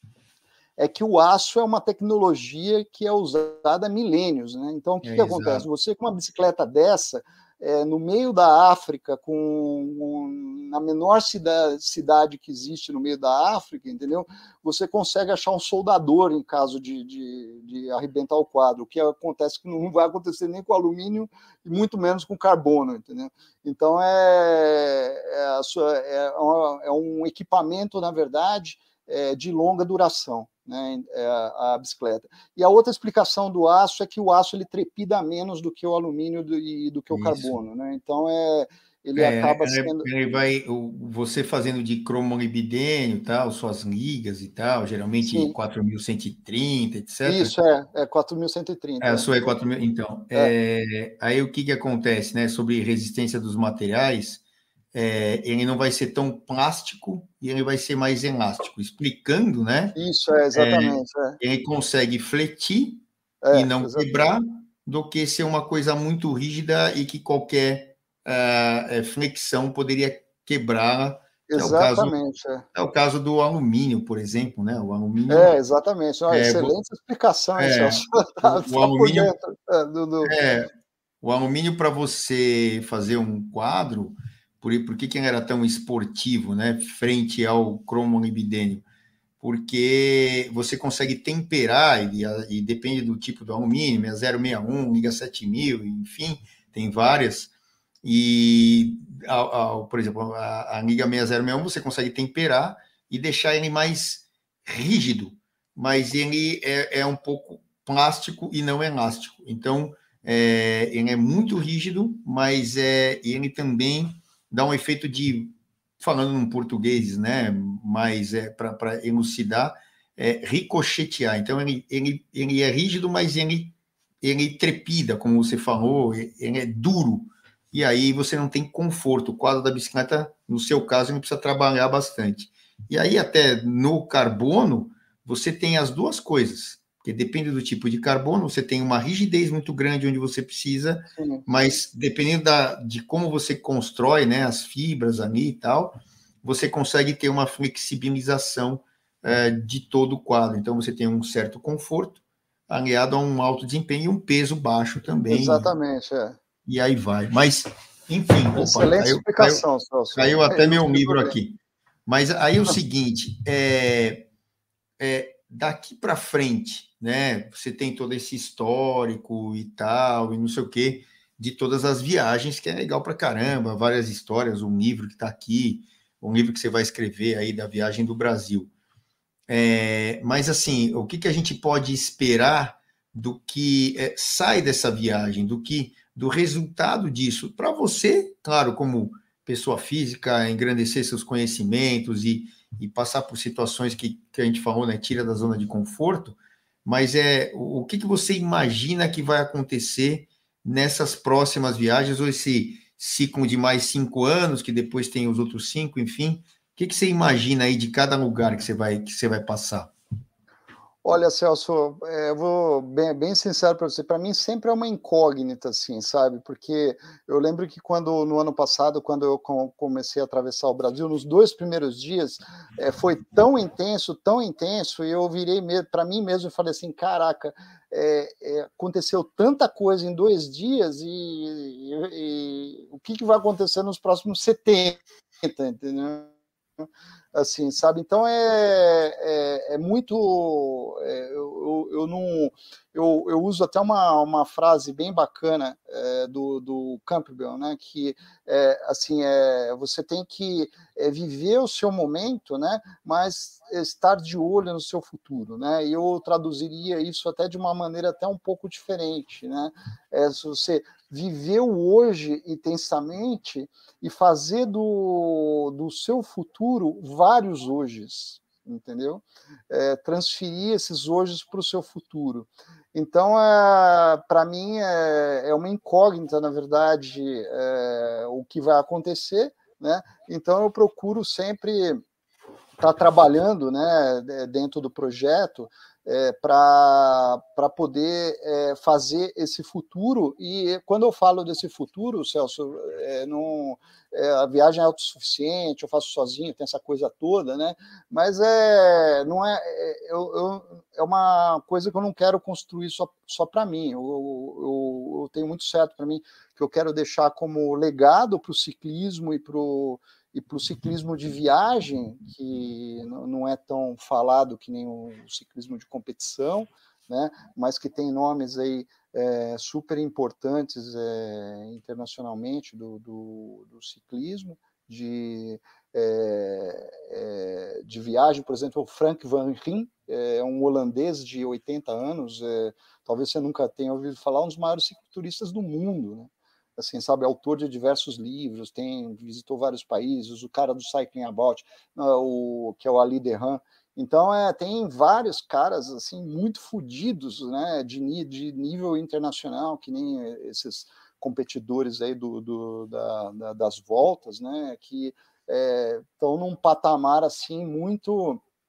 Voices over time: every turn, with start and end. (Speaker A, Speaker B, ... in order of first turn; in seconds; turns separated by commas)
Speaker A: 0.8-40.1, Speaker B: 5.0-5.7, Speaker B: 37.1-37.5, Speaker B: 39.2-47.5, Speaker A: 45.2-45.5, Speaker A: 47.2-49.5, Speaker B: 49.0-54.4, Speaker B: 54.9-60.0, Speaker A: 60.0-61.4, Speaker B: 60.5-72.2, Speaker A: 63.4-64.3, Speaker A: 71.5-72.7, Speaker B: 72.8-75.5, Speaker A: 75.3-80.3, Speaker B: 76.3-76.7, Speaker B: 77.6-79.3, Speaker B: 80.2-80.7, Speaker B: 81.2-88.8, Speaker B: 89.4-97.5, Speaker B: 98.0-155.7, Speaker A: 141.1-141.7, Speaker A: 155.3-156.4, Speaker B: 156.7-159.6, Speaker A: 158.6-161.3, Speaker B: 160.2-164.3, Speaker B: 165.0-178.7, Speaker B: 179.5-209.9, Speaker A: 211.0-236.3, Speaker A: 236.8-282.0, Speaker A: 282.8-358.4